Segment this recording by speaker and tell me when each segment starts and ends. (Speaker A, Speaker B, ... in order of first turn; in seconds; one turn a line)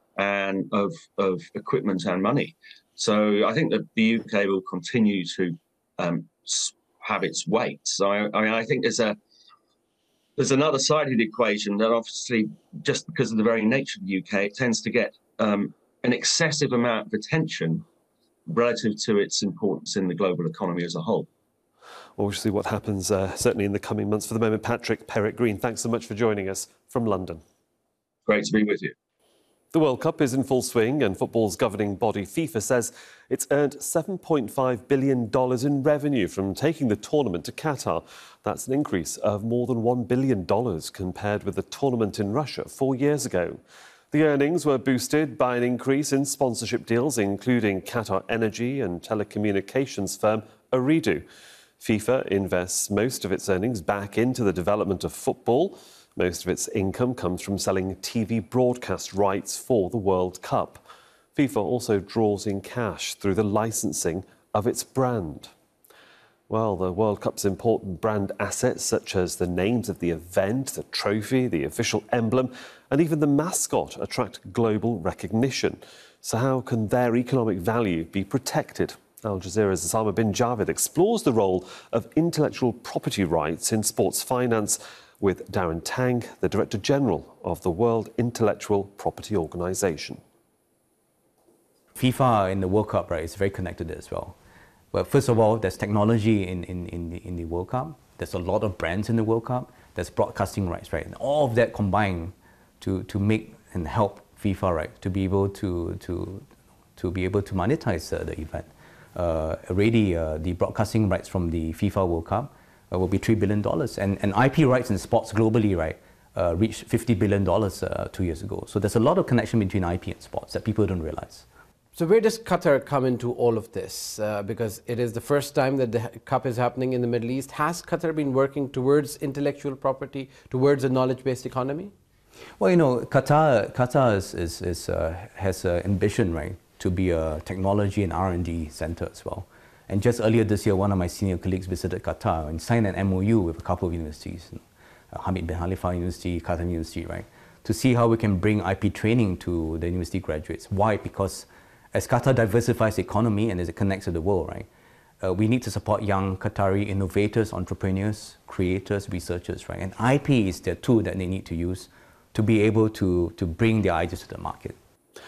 Speaker A: 0.1-9.2
Speaker A: 10.4-17.8
Speaker A: 18.4-21.3
Speaker B: 22.2-27.4
Speaker A: 28.2-28.9
Speaker B: 29.7-43.6
Speaker B: 44.1-51.2
Speaker B: 51.8-60.8
Speaker B: 61.3-65.5
Speaker B: 66.5-90.2
Speaker C: 92.0-94.3
Speaker C: 94.9-121.4
Speaker D: 121.9-131.9
Speaker C: 132.6-154.7
Speaker C: 155.2-164.8